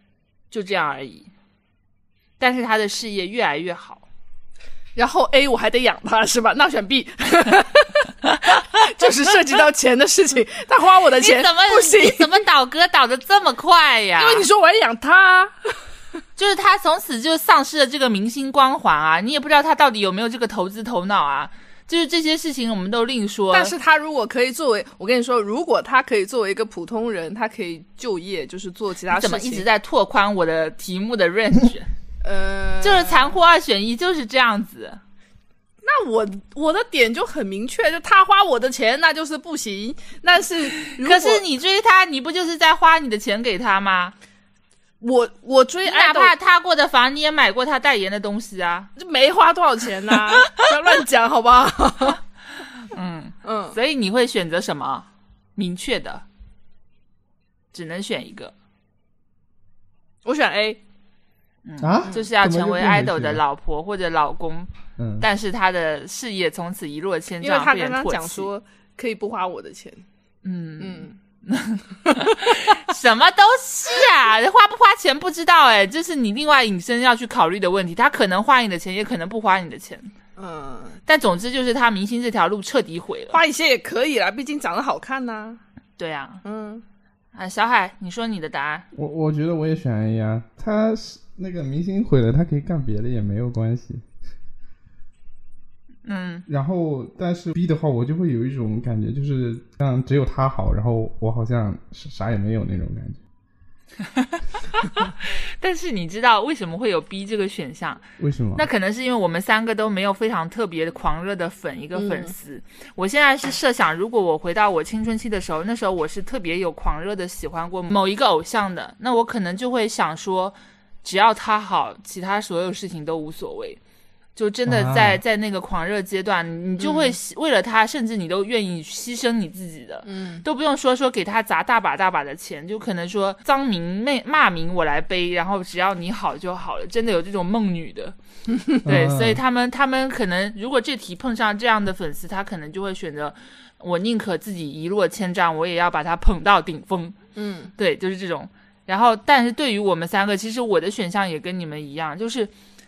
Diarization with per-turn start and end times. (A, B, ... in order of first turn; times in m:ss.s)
0:00.5-0:01.3 A
0:02.4-0:04.0 A
0:05.0-0:12.4 B
0:11.2-0:14.5 A
0:14.2-0:15.8 B
0:16.4-0:23.7 A
0:23.5-0:29.6 B
0:29.1-0:31.9 A
0:32.2-0:33.4 B
0:32.8-0:35.0 A
0:35.8-0:41.4 B
0:40.8-0:44.1 A
0:45.0-0:46.3 B
0:45.8-0:48.9 A
0:49.0-0:52.2 B
0:52.8-0:56.2 A
0:53.4-0:53.8 B
0:57.7-0:58.5 A
1:00.2-1:00.8 B
1:01.6-1:08.5 A
1:01.8-1:03.4 C
1:05.0-1:05.2 C
1:07.4-1:10.0 B
1:10.4-1:20.1 A
1:10.8-1:11.1 B
1:20.4-1:21.0 B
1:21.1-1:23.4 A
1:23.3-1:25.6 B
1:26.0-1:26.4 A
1:26.4-1:26.8 B
1:27.3-1:28.8 A
1:28.9-1:34.0 C
1:36.0-1:36.4 A
1:36.5-1:43.2 C
1:44.2-1:48.0 A
1:48.2-1:48.6 C
1:48.6-2:03.8 A
1:51.9-1:52.3 B
2:04.4-2:18.2 A
2:04.7-2:05.2 C
2:06.8-2:07.2 B
2:10.0-2:10.4 B
2:18.8-2:27.2 A
2:18.8-2:19.4 C
2:27.4-2:27.7 B
2:27.8-2:32.5 A